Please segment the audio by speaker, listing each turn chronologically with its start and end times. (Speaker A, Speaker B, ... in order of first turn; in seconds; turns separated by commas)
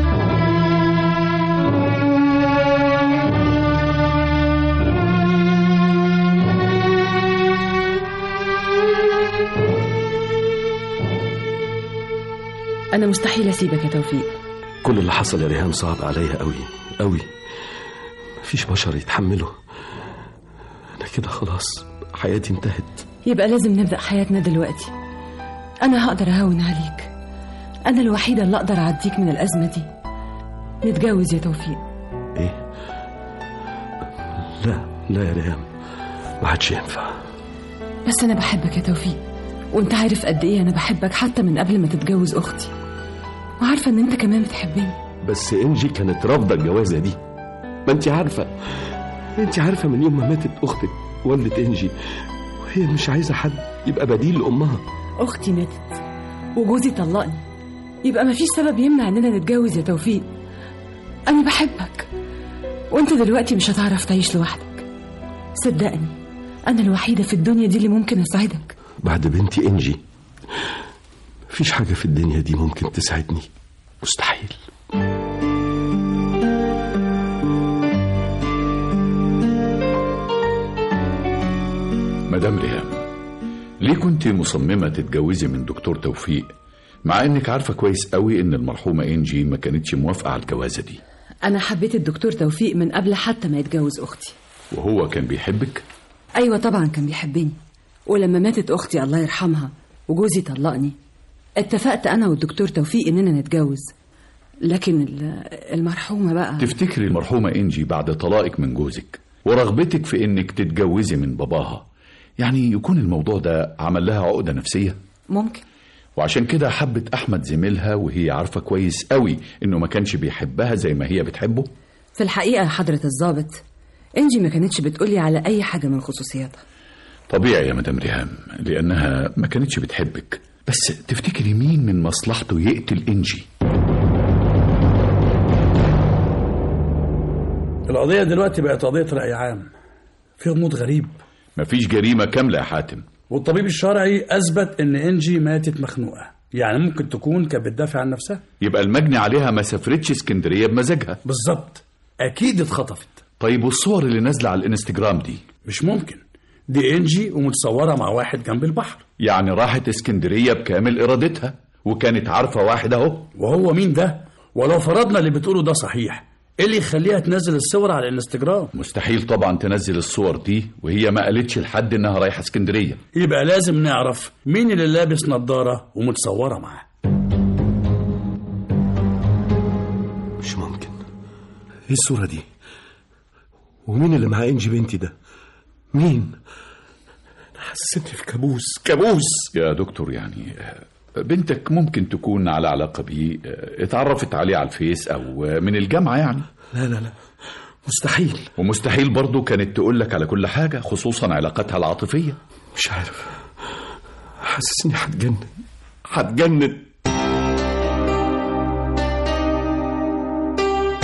Speaker A: 12.9-14.3, Speaker B: 14.8-17.3, Speaker B: 18.4-19.6, Speaker B: 21.0-23.0, Speaker A: 23.2-24.9, Speaker A: 25.8-27.1, Speaker A: 27.9-29.9, Speaker A: 30.8-31.8, Speaker B: 32.4-32.6, Speaker B: 34.4-35.7, Speaker B: 36.4-37.2, Speaker A: 38.0-39.2, Speaker A: 39.7-42.7, Speaker A: 43.6-45.0, Speaker B: 45.2-47.2, Speaker B: 47.9-52.0, Speaker B: 52.6-54.8, Speaker A: 55.2-56.0, Speaker A: 56.5-57.4, Speaker A: 58.0-60.3, Speaker A: 61.3-62.1, Speaker A: 62.9-64.9, Speaker A: 65.5-66.2, Speaker A: 66.7-68.7, Speaker B: 69.0-70.0, Speaker B: 71.5-73.5, Speaker B: 74.0-74.6, Speaker C: 82.3-83.0, Speaker C: 83.8-86.5, Speaker C: 87.0-91.0, Speaker A: 91.5-94.3, Speaker C: 94.7-95.8, Speaker A: 96.4-101.0, Speaker A: 101.6-103.9, Speaker A: 104.6-106.7, Speaker C: 106.6-111.8, Speaker C: 112.4-115.0, Speaker A: 115.3-115.6, Speaker C: 116.2-121.7, Speaker A: 122.2-123.6, Speaker A: 124.2-126.6, Speaker C: 127.3-133.5, Speaker D: 137.9-139.7, Speaker D: 140.4-141.2, Speaker C: 141.6-143.1, Speaker D: 143.3-148.4, Speaker C: 148.6-151.2, Speaker D: 151.2-153.2, Speaker C: 153.4-155.4, Speaker D: 155.7-159.0, Speaker C: 159.2-163.3, Speaker D: 163.4-168.7, Speaker C: 168.8-173.0, Speaker D: 173.2-176.8, Speaker B: 180.4-181.0, Speaker B: 181.9-182.5, Speaker B: 183.9-185.2, Speaker B: 185.9-186.4, Speaker B: 187.6-189.5, Speaker C: 189.5-196.5, Speaker B: 196.7-197.1, Speaker B: 197.9-198.5, Speaker C: 198.6-202.4, Speaker B: 202.8-203.4, Speaker B: 204.4-205.5, Speaker B: 206.1-206.9